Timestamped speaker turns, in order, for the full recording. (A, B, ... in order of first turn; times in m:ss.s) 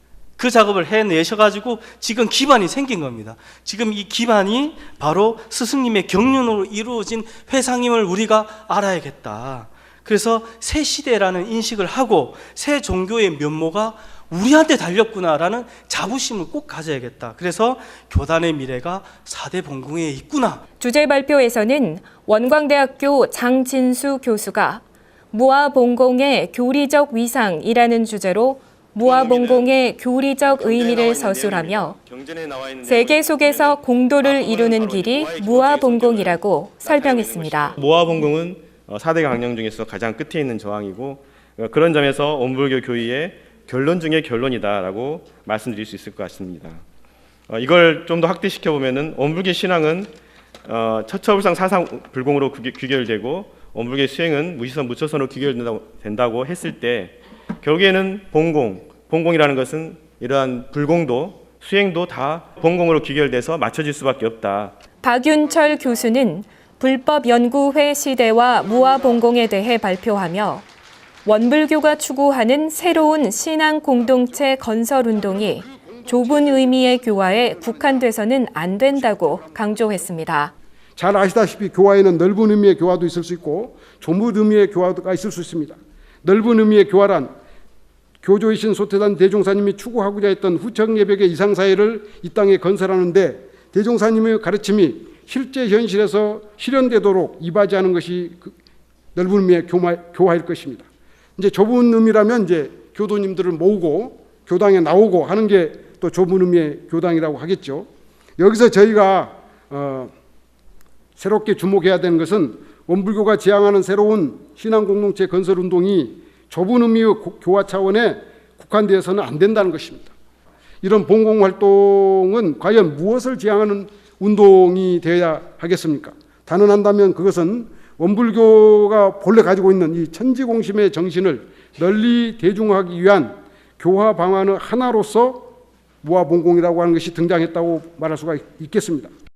0:00.4-0:20.6 A
0:20.8-0:32.0 B
0:29.0-0:29.8 C
0:30.4-0:46.8 C
0:32.8-0:37.8 B
0:47.5-0:50.1 C
0:50.6-1:04.8 C
1:05.0-1:10.6 B
1:11.2-1:20.5 B
1:15.2-1:18.1 D
1:19.0-1:19.9 D
1:21.0-1:27.3 D
1:28.2-1:38.6 D
1:39.2-1:47.9 D
1:48.4-1:50.1 D
1:51.2-2:00.1 D
2:00.8-2:15.5 D
2:16.0-2:19.1 D